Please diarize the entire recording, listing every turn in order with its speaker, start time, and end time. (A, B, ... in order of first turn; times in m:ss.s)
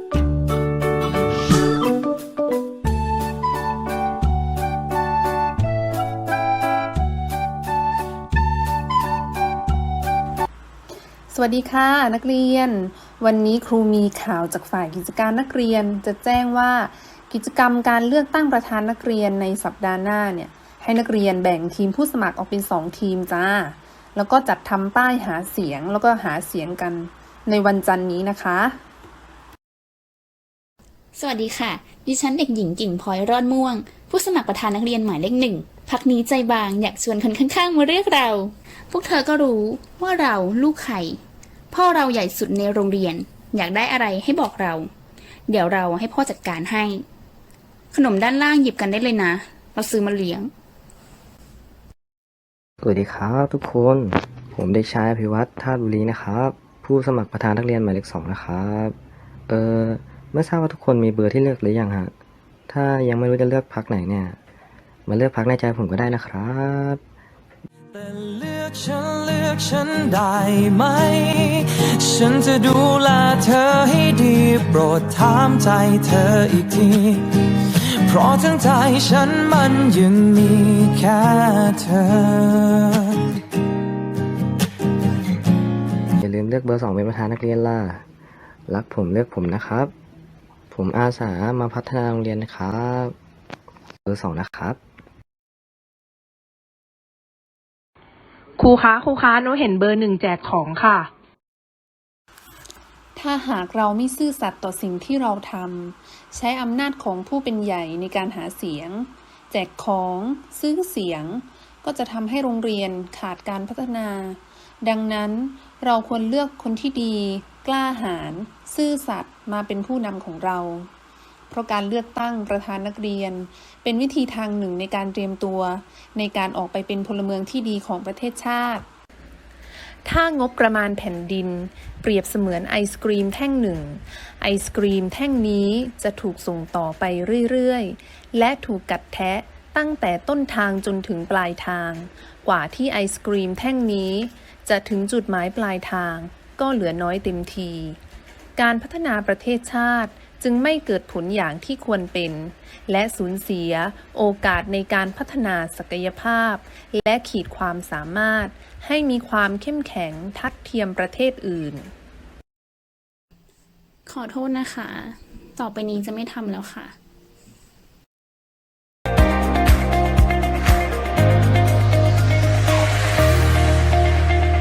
0:11.3-0:28.8 A
0:31.2-0:44.9 B
0:45.5-0:47.0 B
0:47.9-0:50.5 B
0:52.8-0:59.0 C
0:59.5-1:02.1 C
1:02.7-1:04.4 C
1:05.0-1:07.0 C
1:07.9-1:23.3 D
1:26.2-1:28.0 C
1:28.7-1:29.9 C
1:30.7-1:33.1 C
1:34.0-1:34.8 C
1:38.6-1:41.1 E
1:43.2-2:00.9 A
2:01.5-2:08.8 A
2:10.0-2:28.0 A
2:28.6-2:41.9 A
2:44.1-2:47.0 B